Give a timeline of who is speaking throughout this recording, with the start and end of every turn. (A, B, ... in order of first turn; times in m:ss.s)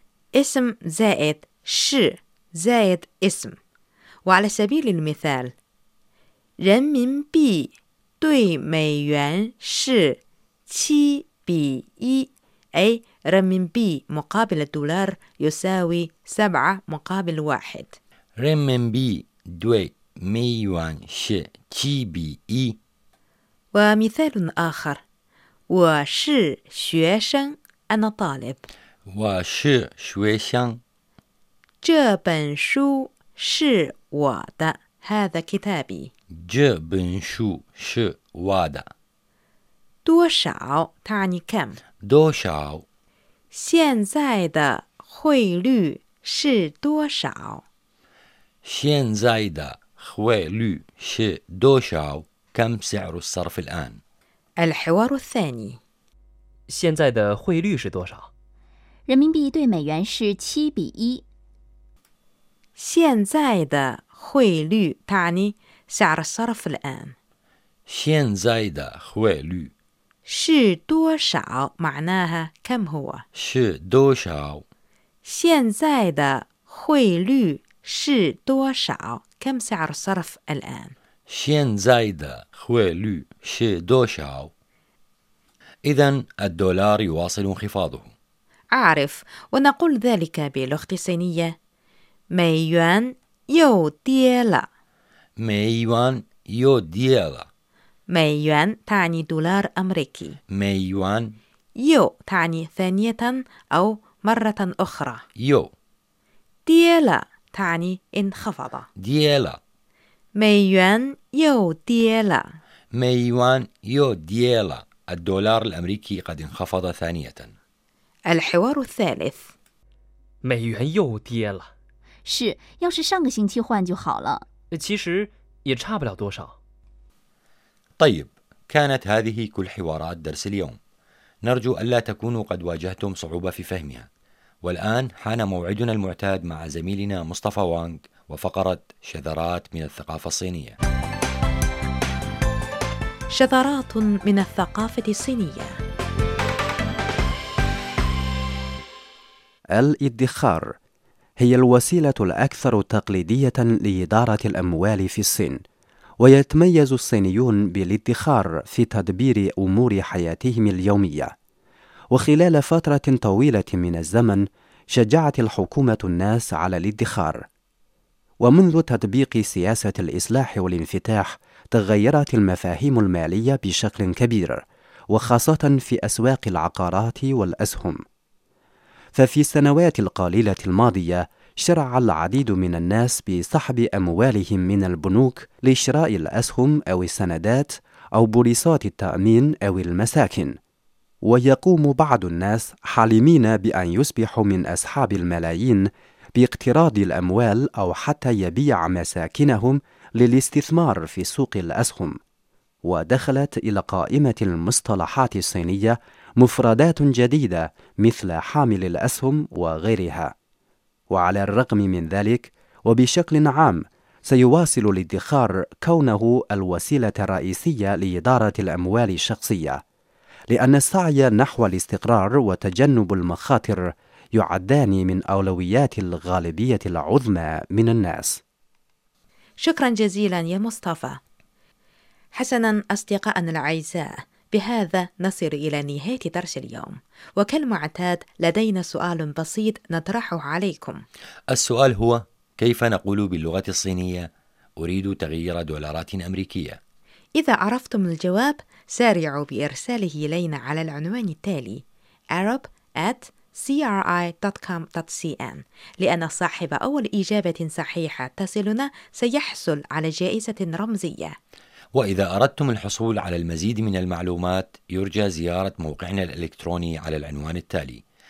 0:00.4-0:03.6 A
0:04.2-0:05.5 A
0:06.6-0:10.2 A
0:10.7-0:18.0 A
0:18.4-0:22.8 B
0:23.7-0:25.0 A
0:25.7-0:28.6 A
0:29.1-0:30.8 B
0:31.8-0:36.1 A
0:36.3-0:38.9 B
0:40.0-0:41.8 A
0:42.0-0:42.8 B
0:43.5-0:47.6 A
0:48.6-0:54.0 B
0:54.6-0:55.8 A
0:56.7-0:58.3 C
0:59.1-1:01.2 D
1:02.8-1:07.2 A
1:07.9-1:09.7 B
1:10.3-1:13.2 A
1:13.4-1:14.6 B
1:15.2-1:20.9 A
1:21.3-1:24.5 B
1:25.9-1:28.1 B
1:28.7-1:31.5 A
1:32.4-1:34.7 A
1:35.4-1:37.5 B
1:38.1-1:40.4 A
1:40.5-1:41.4 B
1:41.8-1:45.2 A
1:45.4-1:45.7 B
1:46.7-1:48.9 A
1:49.0-1:49.6 B
1:50.4-1:52.6 A
1:52.9-1:57.5 B
1:58.3-1:59.5 A
2:00.4-2:01.7 C
2:02.3-2:04.4 D
2:04.7-2:06.6 C
2:08.0-2:10.8 B
2:11.4-2:14.1 B
2:14.6-2:20.8 B
2:23.3-2:25.8 A
2:29.7-2:30.7 E
2:31.4-2:35.6 E
2:36.2-2:41.3 E
2:42.1-2:47.4 E
2:48.4-2:58.0 E
2:59.1-3:10.6 E
3:11.2-3:22.2 E
3:22.8-3:30.3 E
3:31.1-3:39.8 E
3:40.5-3:48.4 E
3:49.6-3:51.2 A
3:52.4-4:01.0 A
4:01.5-4:06.8 B
4:07.4-4:11.8 A
4:12.4-4:21.4 A
4:21.9-4:28.0 B